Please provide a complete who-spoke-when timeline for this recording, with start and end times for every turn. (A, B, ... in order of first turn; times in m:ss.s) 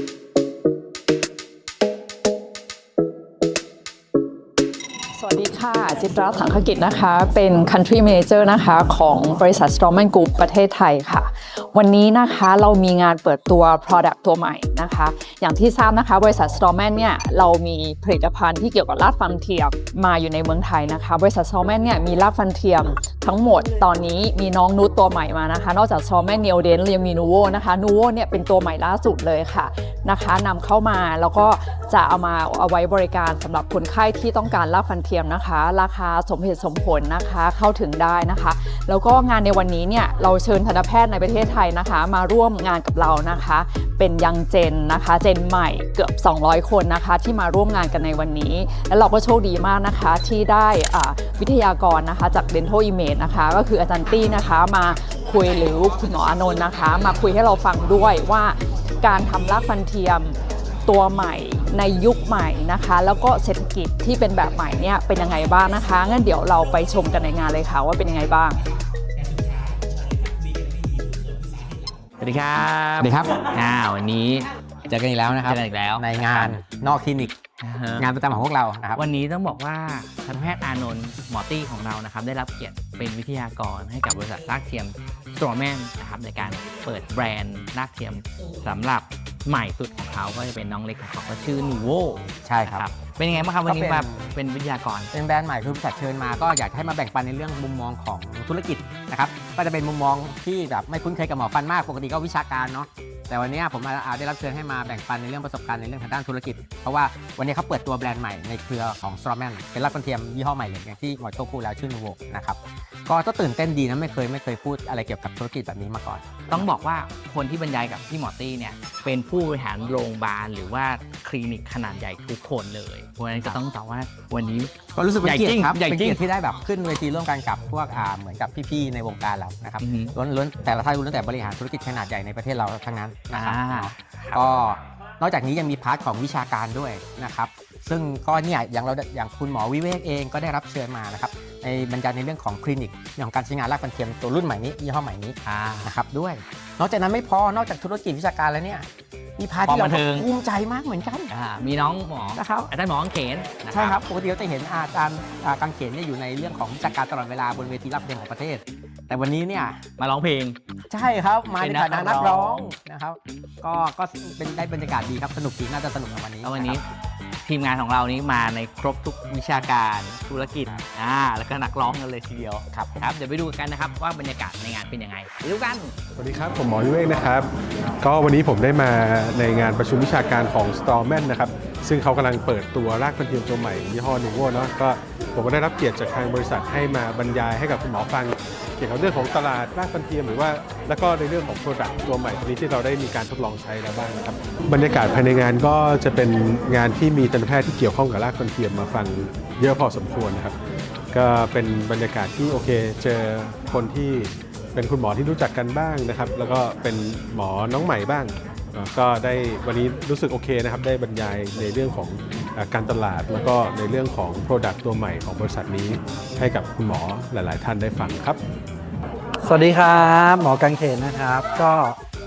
0:05.1-1:08.6 A
1:09.1-1:12.0 B
1:12.2-1:14.5 C
1:13.0-1:13.5 B
1:14.9-1:17.4 B
1:15.4-1:16.6 C
1:17.6-1:18.1 C
1:18.0-1:19.0 B
1:19.0-1:35.1 C
1:32.3-1:32.9 B
1:33.6-1:34.3 B
1:35.1-1:56.7 B
1:56.5-2:06.2 C
2:04.9-2:28.9 B
2:09.8-2:10.1 C
2:13.3-2:14.4 C
2:25.4-2:25.9 C
2:29.4-2:31.3 B
2:29.6-2:30.3 C
2:31.3-2:34.0 C
2:32.4-2:32.7 B
2:33.7-2:39.9 B
2:40.0-2:40.6 C
2:40.9-2:46.8 B
2:41.6-2:42.7 C
2:46.4-2:46.8 C
2:47.4-2:55.9 C
2:52.7-2:53.0 B
2:56.2-2:57.5 D
2:58.0-3:20.6 D
3:21.1-3:38.4 D
3:39.4-3:42.0 E